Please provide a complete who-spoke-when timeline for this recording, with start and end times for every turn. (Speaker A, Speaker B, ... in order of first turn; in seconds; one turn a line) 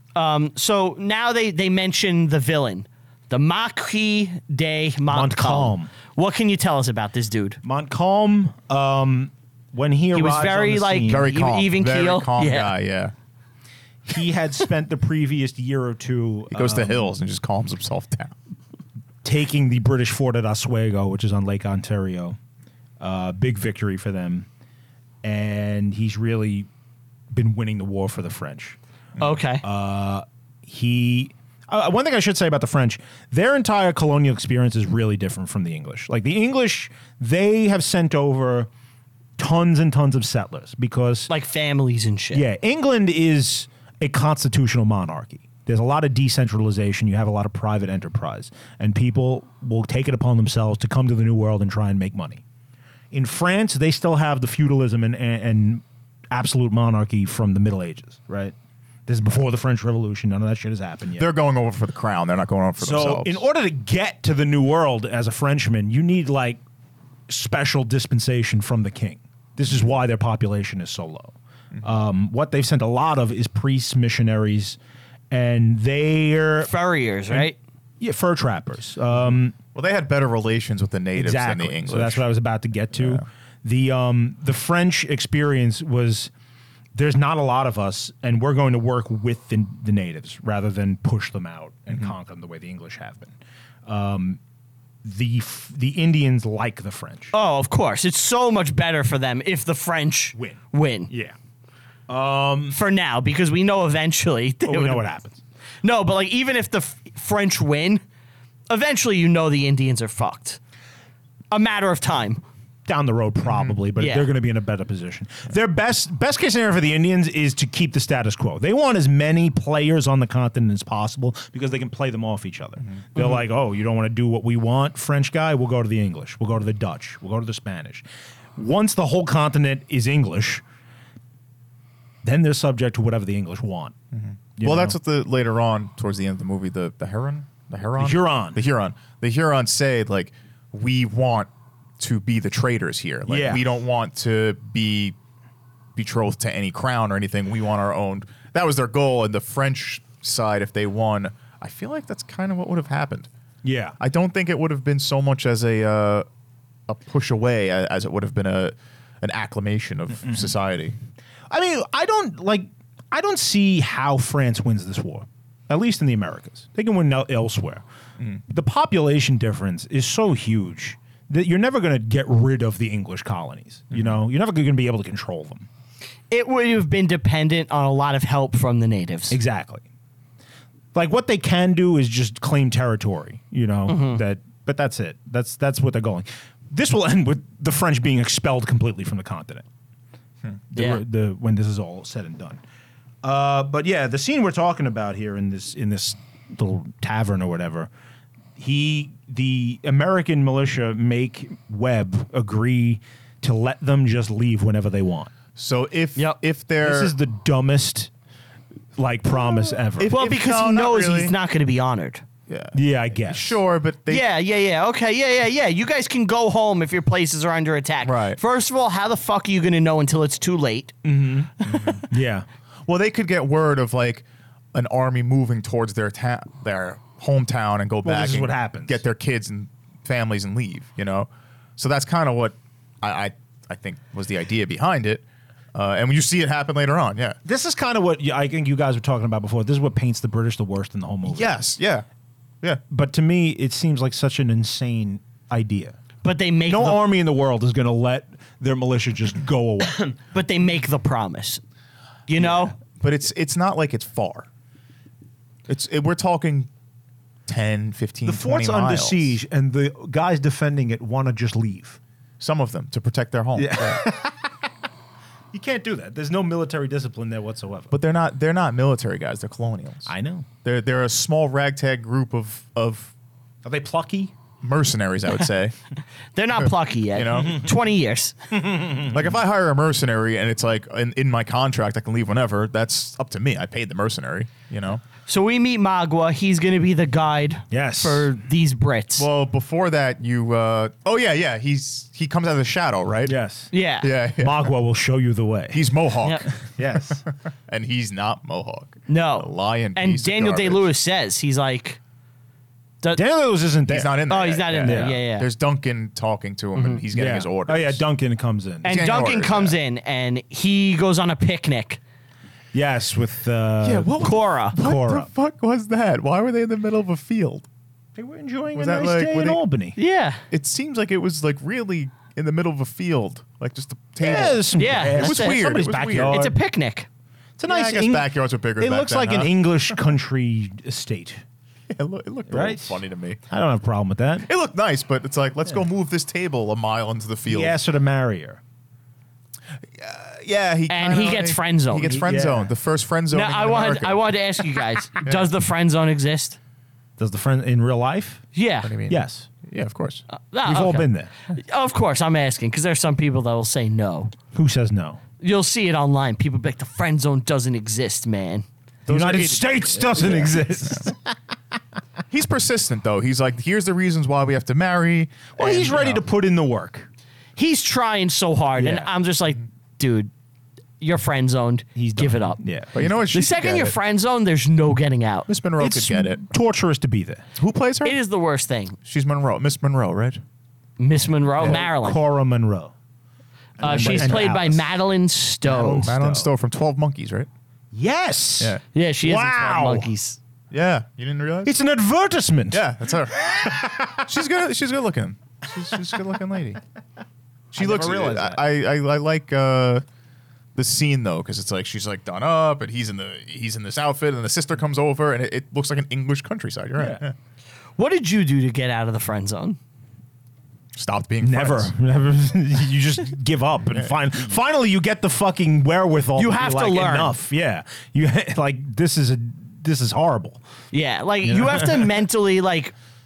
Speaker A: 0.1-7.6
Speaker B: 5.1-5.9
Speaker B: 7.6-11.3
Speaker A: 10.1-12.7
Speaker C: 11.1-13.1
Speaker B: 14.1-17.1
Speaker C: 16.5-18.4
Speaker B: 19.2-22.4
Speaker B: 23.0-24.5
Speaker B: 25.2-26.7
Speaker B: 27.3-28.8
Speaker A: 29.2-29.6
Speaker B: 29.6-38.7
Speaker B: 39.4-41.3
Speaker A: 41.3-42.4
Speaker B: 42.3-52.4
Speaker B: 53.1-58.5
Speaker B: 59.1-61.3
Speaker C: 61.2-63.4
Speaker B: 62.8-66.6
Speaker B: 67.3-74.8
Speaker B: 75.3-76.7
Speaker A: 76.6-77.5
Speaker B: 78.0-79.5
Speaker C: 79.3-82.2
Speaker B: 81.1-86.3
Speaker C: 82.9-83.2
Speaker B: 86.9-93.3
Speaker B: 93.8-94.4
Speaker B: 95.0-97.3
Speaker A: 97.3-101.1
Speaker B: 100.3-101.3
Speaker B: 102.1-102.8
Speaker A: 102.7-105.0
Speaker B: 104.6-105.4
Speaker A: 105.8-108.0
Speaker A: 108.7-110.6
Speaker A: 111.5-112.4
Speaker B: 112.8-128.0
Speaker A: 114.0-114.3
Speaker B: 128.6-130.6
Speaker B: 132.2-133.9
Speaker C: 134.1-145.2
Speaker B: 134.6-134.9
Speaker B: 138.0-138.6
Speaker B: 143.3-143.6
Speaker C: 145.9-153.3
Speaker B: 153.6-153.9
Speaker C: 154.0-156.2
Speaker C: 156.9-160.9
Speaker B: 160.2-160.5
Speaker B: 161.5-167.8
Speaker B: 168.5-175.7
Speaker A: 176.3-179.3
Speaker B: 179.3-179.8
Speaker B: 180.9-189.6
Speaker A: 183.9-184.2
Speaker B: 190.7-192.6
Speaker A: 190.7-191.0
Speaker B: 193.2-197.9
Speaker B: 198.6-205.3
Speaker C: 205.6-207.1
Speaker B: 206.8-208.1
Speaker B: 209.0-210.1
Speaker C: 209.9-211.3
Speaker A: 210.1-212.2
Speaker C: 212.5-214.2
Speaker B: 212.7-213.6
Speaker A: 214.1-220.9
Speaker C: 218.0-218.4
Speaker B: 221.0-222.4
Speaker C: 221.6-222.0
Speaker C: 222.8-237.4
Speaker B: 228.0-229.0
Speaker B: 237.4-241.6
Speaker C: 241.2-242.1
Speaker B: 242.9-246.0
Speaker A: 246.2-247.0
Speaker B: 246.7-250.2
Speaker A: 250.3-251.6
Speaker A: 252.3-252.7
Speaker C: 252.4-254.5
Speaker C: 255.7-256.7
Speaker C: 257.5-259.4
Speaker B: 258.2-262.0
Speaker C: 262.4-264.0
Speaker B: 263.6-264.5
Speaker B: 265.5-267.9
Speaker C: 267.9-270.1
Speaker B: 270.1-270.5
Speaker C: 270.6-273.1
Speaker B: 273.6-274.3
Speaker C: 274.6-275.8
Speaker A: 276.3-278.3
Speaker C: 276.6-277.7
Speaker B: 278.5-279.2
Speaker C: 279.0-285.0
Speaker A: 285.3-289.2
Speaker B: 287.7-288.3
Speaker C: 289.2-293.3
Speaker B: 293.3-293.7
Speaker A: 293.7-294.1
Speaker C: 294.0-294.7
Speaker B: 294.4-295.8
Speaker C: 295.7-296.5
Speaker B: 296.6-297.2
Speaker C: 297.7-300.9
Speaker A: 299.1-302.0
Speaker B: 303.1-304.1
Speaker C: 303.9-308.0
Speaker A: 304.3-305.5
Speaker B: 304.8-305.2
Speaker A: 306.8-307.0
Speaker B: 307.1-309.0
Speaker A: 308.8-312.0
Speaker C: 308.8-309.8
Speaker B: 312.7-315.3
Speaker C: 313.8-317.7
Speaker A: 314.2-314.8
Speaker B: 318.1-320.0
Speaker C: 318.7-319.6
Speaker A: 319.9-320.4
Speaker C: 320.5-326.4
Speaker B: 324.2-326.6
Speaker A: 324.7-325.6
Speaker A: 326.2-327.1
Speaker B: 327.6-331.4
Speaker C: 327.7-329.9
Speaker C: 331.9-333.4
Speaker B: 332.5-334.5
Speaker C: 334.4-337.8
Speaker B: 337.5-338.6
Speaker C: 339.9-344.2
Speaker A: 340.9-342.2
Speaker B: 342.1-342.7
Speaker A: 343.3-346.6
Speaker C: 345.2-345.5
Speaker B: 347.2-348.5
Speaker A: 348.5-348.9
Speaker C: 348.8-350.2
Speaker B: 349.1-349.5
Speaker A: 350.3-354.3
Speaker B: 350.6-351.3
Speaker B: 354.5-355.2
Speaker A: 355.4-358.6
Speaker C: 359.1-361.1
Speaker B: 359.1-361.3
Speaker C: 362.3-366.2
Speaker B: 365.6-367.1
Speaker A: 367.6-370.3
Speaker B: 368.8-369.1
Speaker A: 371.0-372.6
Speaker B: 371.9-372.9
Speaker C: 372.9-373.9
Speaker A: 373.3-375.5
Speaker C: 375.5-376.4
Speaker B: 375.8-377.5
Speaker C: 377.6-378.2
Speaker A: 378.0-379.0
Speaker C: 379.0-380.4
Speaker A: 381.0-382.2
Speaker B: 381.6-382.9
Speaker B: 383.8-384.9
Speaker A: 383.8-386.1
Speaker C: 383.8-384.6
Speaker B: 385.6-386.5
Speaker C: 386.0-387.5
Speaker B: 387.9-390.1
Speaker A: 388.9-390.4
Speaker C: 390.7-391.7
Speaker B: 391.6-394.2
Speaker C: 392.7-393.5
Speaker C: 394.2-396.8
Speaker B: 397.7-398.6
Speaker C: 397.7-400.0
Speaker C: 400.7-407.3
Speaker A: 408.0-409.8
Speaker C: 410.9-411.9
Speaker B: 411.4-420.6
Speaker A: 416.4-417.3
Speaker A: 420.9-422.9
Speaker B: 421.5-422.1